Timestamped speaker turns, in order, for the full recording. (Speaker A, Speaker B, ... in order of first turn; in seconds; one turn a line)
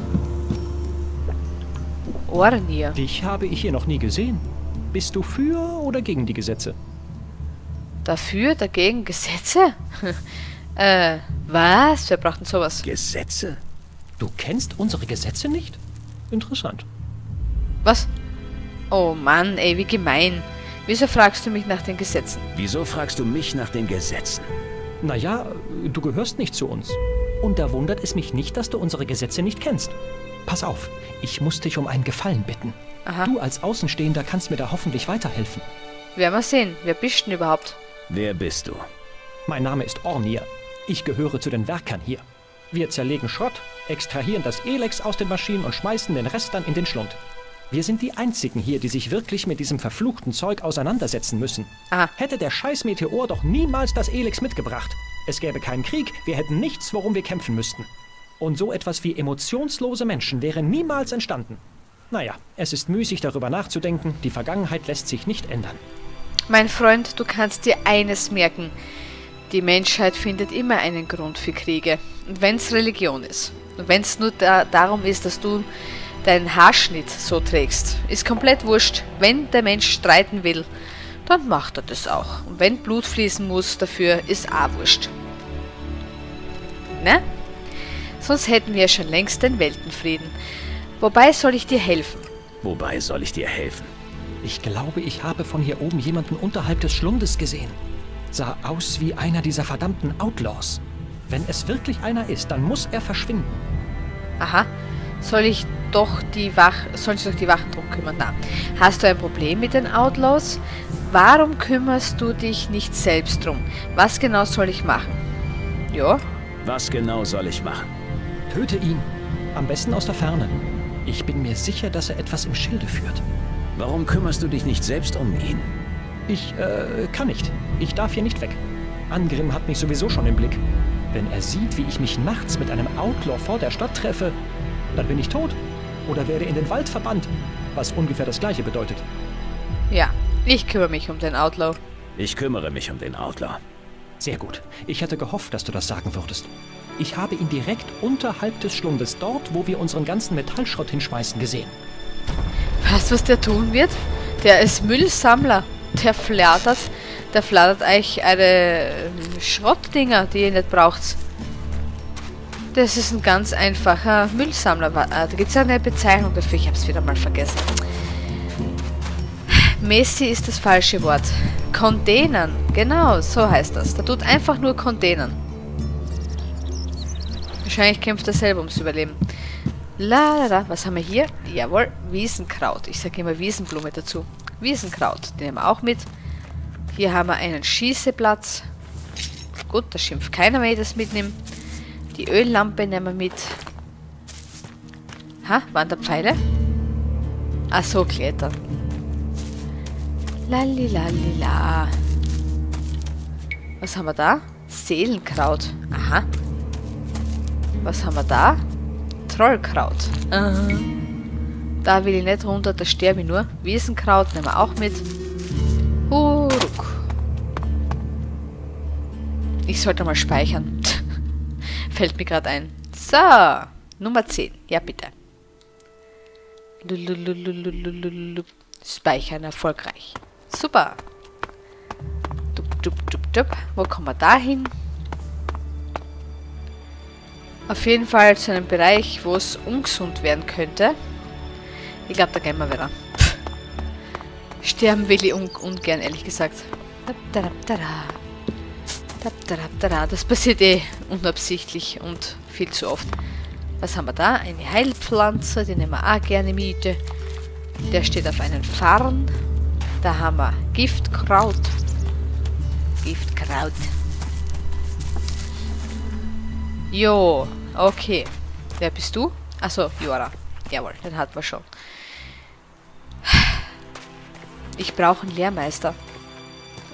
Speaker A: 2.3-3.0
Speaker B: 3.0-6.8
Speaker A: 8.1-10.2
Speaker A: 10.8-12.8
Speaker C: 12.8-13.6
Speaker B: 14.2-15.8
Speaker B: 16.3-16.9
Speaker A: 18.9-22.5
Speaker C: 22.6-24.5
Speaker B: 25.0-35.7
Speaker A: 33.1-33.3
Speaker A: 36.2-37.8
Speaker C: 38.1-38.8
Speaker B: 39.5-47.2
Speaker B: 47.7-57.9
Speaker B: 58.4-61.6
Speaker B: 62.1-65.8
Speaker A: 66.5-68.7
Speaker A: 69.5-75.7
Speaker A: 76.2-80.7
Speaker A: 81.3-85.1
Speaker A: 87.0-87.2
Speaker A: 88.2-90.3
Speaker A: 91.0-92.3
Speaker C: 92.6-93.9
Speaker B: 94.4-97.8
Speaker B: 98.3-103.5
Speaker A: 104.4-104.7
Speaker A: 105.2-115.2
Speaker A: 115.9-116.2
Speaker C: 116.6-117.9
Speaker B: 118.5-123.2
Speaker C: 123.8-125.7
Speaker B: 126.3-130.6
Speaker B: 131.1-134.4
Speaker B: 134.9-139.1
Speaker A: 139.9-141.8
Speaker C: 142.2-143.6
Speaker B: 144.2-151.8
Speaker A: 152.8-161.2
Speaker A: 162.7-167.8
Speaker A: 169.5-175.4
Speaker A: 177.7-179.2
Speaker A: 180.0-186.1
Speaker A: 186.9-188.7
Speaker A: 189.7-191.4
Speaker A: 192.1-193.6
Speaker A: 195.4-196.4
Speaker A: 197.7-198.6
Speaker A: 200.5-202.0
Speaker A: 203.8-206.3
Speaker A: 207.8-208.6
Speaker A: 209.3-210.9
Speaker A: 211.8-215.1
Speaker A: 216.1-217.1
Speaker A: 219.7-221.1
Speaker A: 221.9-225.1
Speaker A: 226.8-231.0
Speaker A: 232.6-234.7
Speaker A: 237.7-241.0
Speaker A: 242.1-243.4
Speaker A: 244.6-248.2
Speaker A: 249.2-253.1
Speaker A: 253.8-257.0
Speaker A: 257.9-259.3
Speaker A: 260.0-261.8
Speaker A: 263.0-263.9
Speaker A: 266.9-271.7
Speaker A: 273.2-273.7
Speaker A: 274.8-276.0